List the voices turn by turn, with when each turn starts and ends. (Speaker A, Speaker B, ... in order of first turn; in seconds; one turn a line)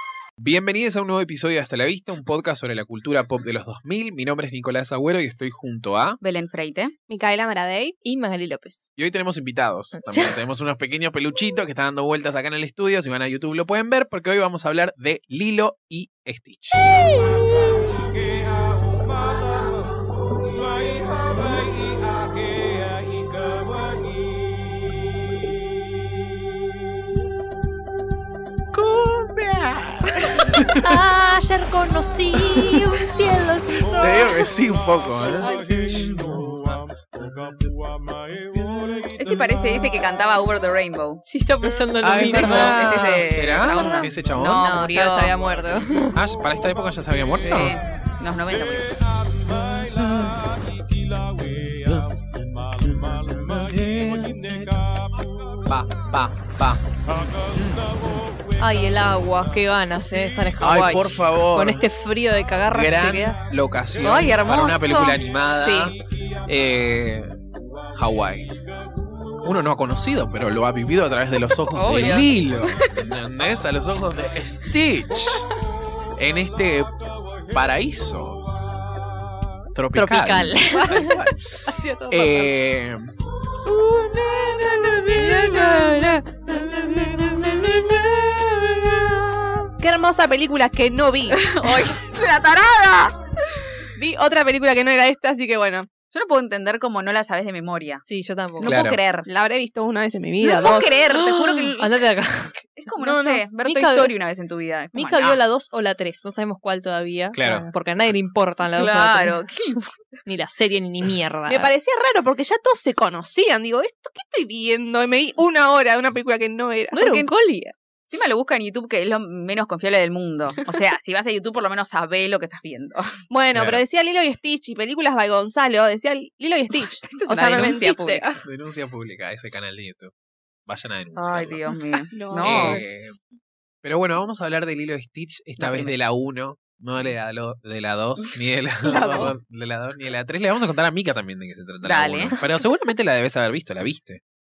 Speaker A: 0.4-6.2
Speaker B: 6.2-6.9
Speaker C: 7.1-8.0
Speaker D: 8.0-8.9
Speaker A: 9.0-17.1
Speaker D: 9.9-10.4
Speaker A: 28.7-31.1
Speaker D: 30.8-34.6
Speaker A: 32.3-33.1
Speaker A: 33.9-36.7
Speaker D: 35.4-36.3
Speaker A: 38.5-39.1
Speaker B: 39.1-41.2
Speaker D: 41.3-43.2
Speaker A: 42.0-44.6
Speaker B: 42.2-45.3
Speaker D: 44.5-46.2
Speaker A: 46.1-47.8
Speaker B: 47.4-48.9
Speaker A: 49.5-50.5
Speaker A: 51.8-52.2
Speaker A: 52.8-54.9
Speaker A: 55.6-56.8
Speaker A: 57.5-58.0
Speaker D: 58.6-63.4
Speaker A: 60.6-61.8
Speaker A: 62.7-67.4
Speaker B: 64.0-65.9
Speaker A: 67.9-68.6
Speaker A: 69.4-75.5
Speaker B: 71.8-72.9
Speaker D: 71.9-72.2
Speaker A: 76.2-78.5
Speaker A: 79.7-83.1
Speaker D: 79.9-81.2
Speaker C: 80.7-81.2
Speaker C: 81.7-82.5
Speaker A: 83.7-85.2
Speaker B: 84.6-86.1
Speaker D: 85.0-88.0
Speaker C: 85.1-86.2
Speaker A: 87.1-88.0
Speaker C: 89.8-91.5
Speaker B: 91.3-93.2
Speaker C: 94.0-95.9
Speaker B: 96.1-98.0
Speaker D: 98.1-98.8
Speaker B: 98.6-99.3
Speaker A: 98.6-99.0
Speaker C: 99.3-101.3
Speaker B: 100.4-102.0
Speaker D: 101.8-102.5
Speaker B: 102.6-105.4
Speaker C: 103.0-103.4
Speaker D: 103.6-104.1
Speaker D: 104.9-109.5
Speaker A: 107.3-107.7
Speaker B: 108.7-109.9
Speaker D: 110.2-111.7
Speaker C: 111.5-117.1
Speaker B: 117.0-117.3
Speaker D: 117.0-117.7
Speaker B: 118.1-123.1
Speaker C: 123.3-128.3
Speaker A: 123.5-123.8
Speaker B: 127.1-128.4
Speaker A: 128.4-130.1
Speaker A: 130.7-131.6
Speaker B: 131.2-132.8
Speaker C: 132.1-132.8
Speaker A: 132.4-133.2
Speaker A: 133.8-144.2
Speaker B: 135.6-135.9
Speaker C: 138.9-139.3
Speaker B: 141.8-142.4